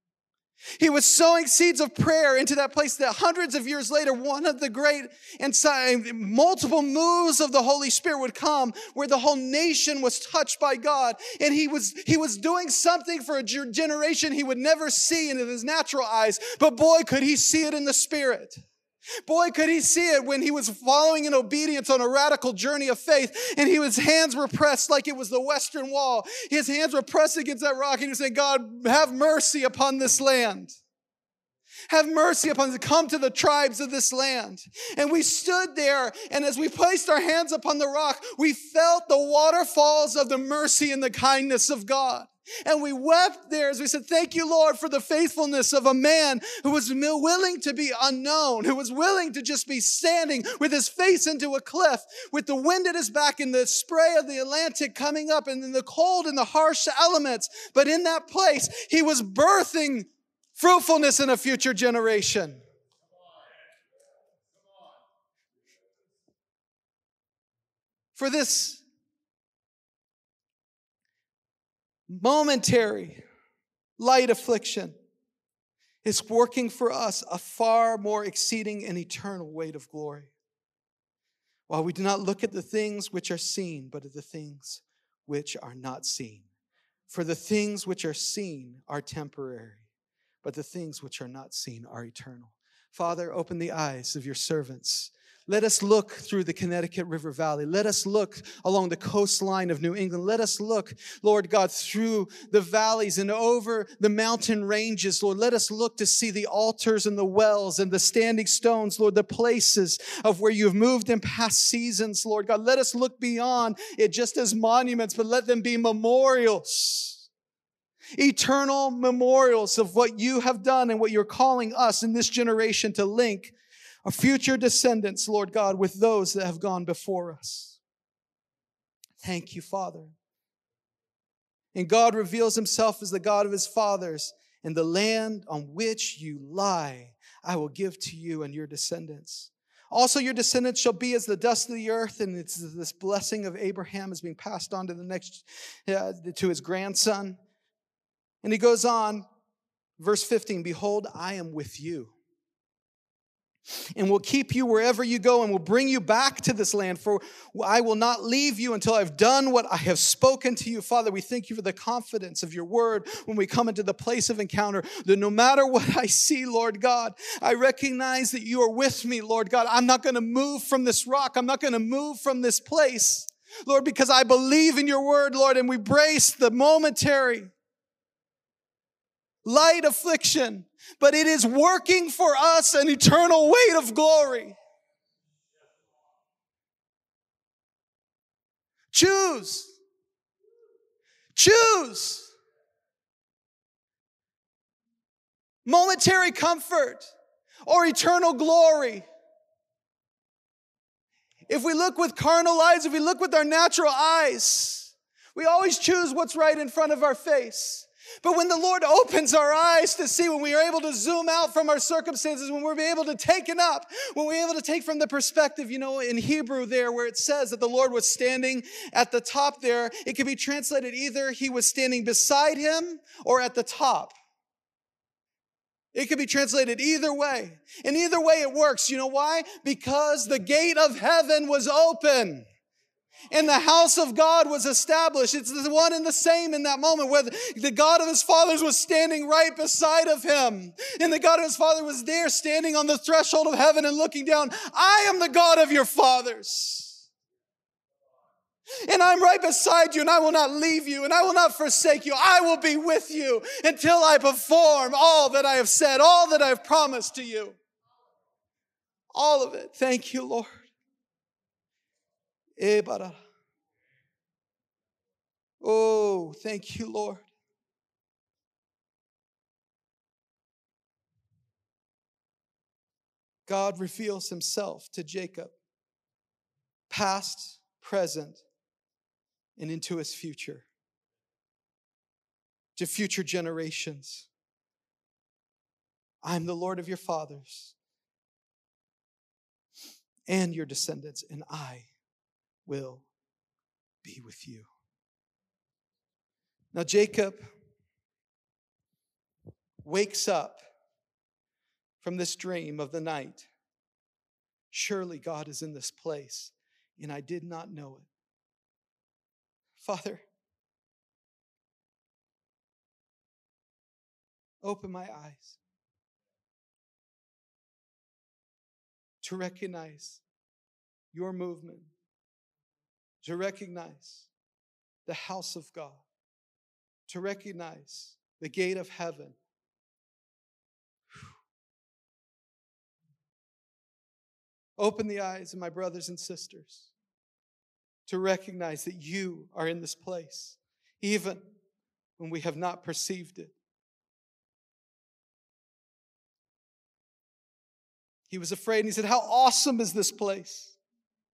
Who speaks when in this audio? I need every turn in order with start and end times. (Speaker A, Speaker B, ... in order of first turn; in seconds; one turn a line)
Speaker A: 0.8-18.6
Speaker A: 19.2-30.7
Speaker A: 31.9-62.6
Speaker A: 68.2-68.8
Speaker A: 72.1-73.2
Speaker A: 74.0-74.9
Speaker A: 76.0-80.3
Speaker A: 81.7-86.5
Speaker A: 87.1-89.8
Speaker A: 90.4-117.2
Speaker A: 118.2-127.8
Speaker A: 129.2-130.1
Speaker A: 131.7-147.4
Speaker A: 148.4-149.2
Speaker A: 150.0-152.1
Speaker A: 153.9-177.5
Speaker A: 179.4-184.6
Speaker A: 188.9-189.7
Speaker A: 191.3-192.3
Speaker A: 195.7-197.1
Speaker A: 197.7-199.0
Speaker A: 201.5-224.1
Speaker A: 225.9-232.4
Speaker A: 233.3-247.1
Speaker A: 248.8-257.6
Speaker A: 259.1-260.7
Speaker A: 262.6-263.2
Speaker A: 265.6-267.3
Speaker A: 273.5-275.5
Speaker A: 276.9-278.4
Speaker A: 279.6-280.6
Speaker A: 282.8-284.3
Speaker A: 286.2-287.7
Speaker A: 290.3-291.9
Speaker A: 292.6-293.1
Speaker A: 294.0-294.7
Speaker A: 296.7-297.4
Speaker A: 299.8-300.6
Speaker A: 302.0-303.4
Speaker A: 304.7-308.1
Speaker A: 309.8-310.2
Speaker A: 314.6-315.6
Speaker A: 319.2-320.2
Speaker A: 321.1-321.9
Speaker A: 323.2-324.3
Speaker A: 325.1-326.0
Speaker A: 327.1-329.4
Speaker A: 334.8-336.9
Speaker A: 338.1-341.4
Speaker A: 342.2-343.5
Speaker A: 348.3-350.8